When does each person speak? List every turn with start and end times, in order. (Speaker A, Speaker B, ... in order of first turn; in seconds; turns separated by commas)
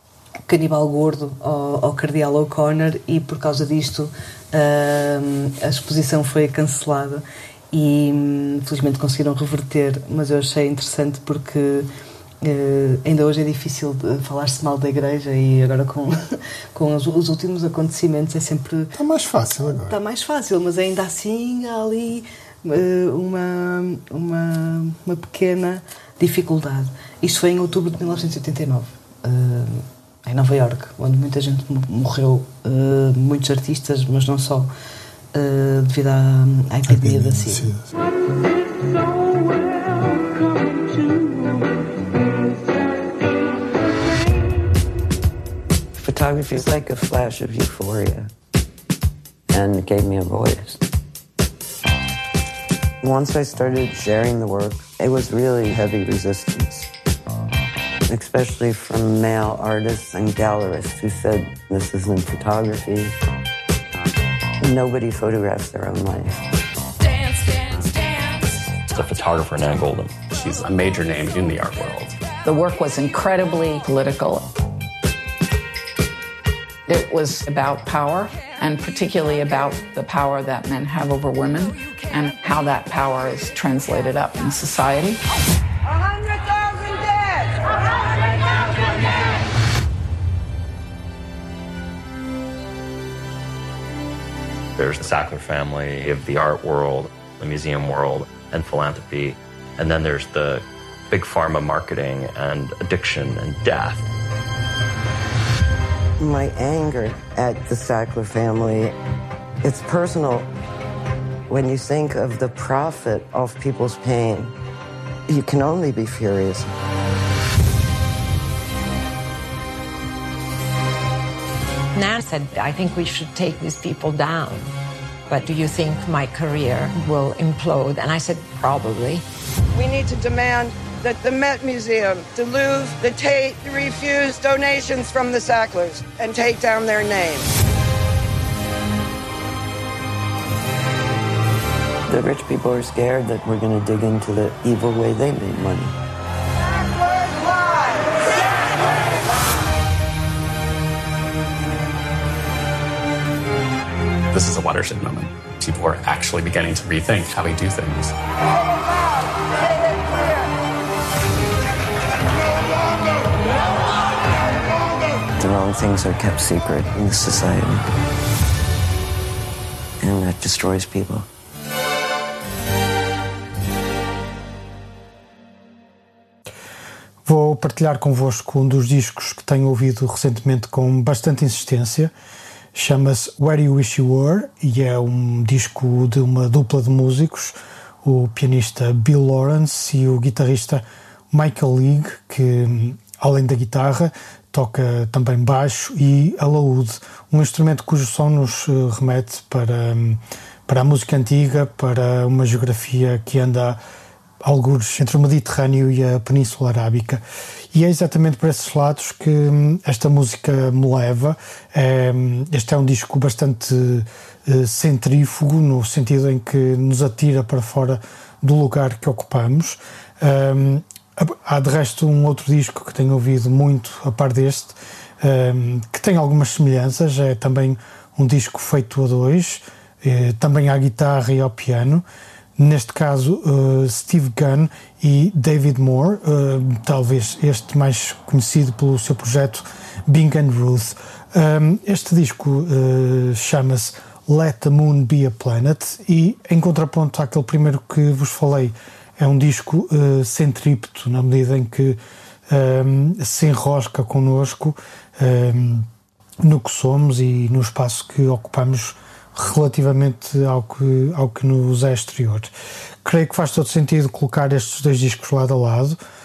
Speaker A: 0.5-11.9, Speaker A: 12.4-18.9, Speaker B: 18.9-20.0, Speaker A: 19.6-34.7, Speaker A: 35.3-37.7, Speaker B: 36.9-37.9, Speaker C: 46.0-48.3, Speaker C: 49.5-50.8, Speaker C: 53.0-56.9, Speaker C: 58.1-63.1, Speaker C: 64.6-66.4, Speaker D: 67.2-72.2, Speaker E: 72.4-74.5, Speaker E: 76.9-85.2, Speaker F: 85.9-87.7, Speaker D: 94.8-104.1, Speaker C: 106.2-108.9, Speaker C: 109.6-110.5, Speaker C: 111.5-114.5, Speaker C: 115.3-116.7, Speaker G: 121.9-124.7, Speaker G: 125.3-129.2, Speaker F: 129.8-137.5, Speaker C: 142.1-145.9, Speaker D: 154.3-158.1, Speaker C: 165.4-167.9, Speaker C: 170.0-171.3, Speaker H: 177.2-182.1, Speaker H: 182.7-203.8, Speaker H: 204.4-207.2, Speaker H: 207.7-232.0, Speaker H: 232.6-252.0, Speaker H: 252.5-255.9, Speaker H: 256.4-262.5, Speaker H: 263.0-266.0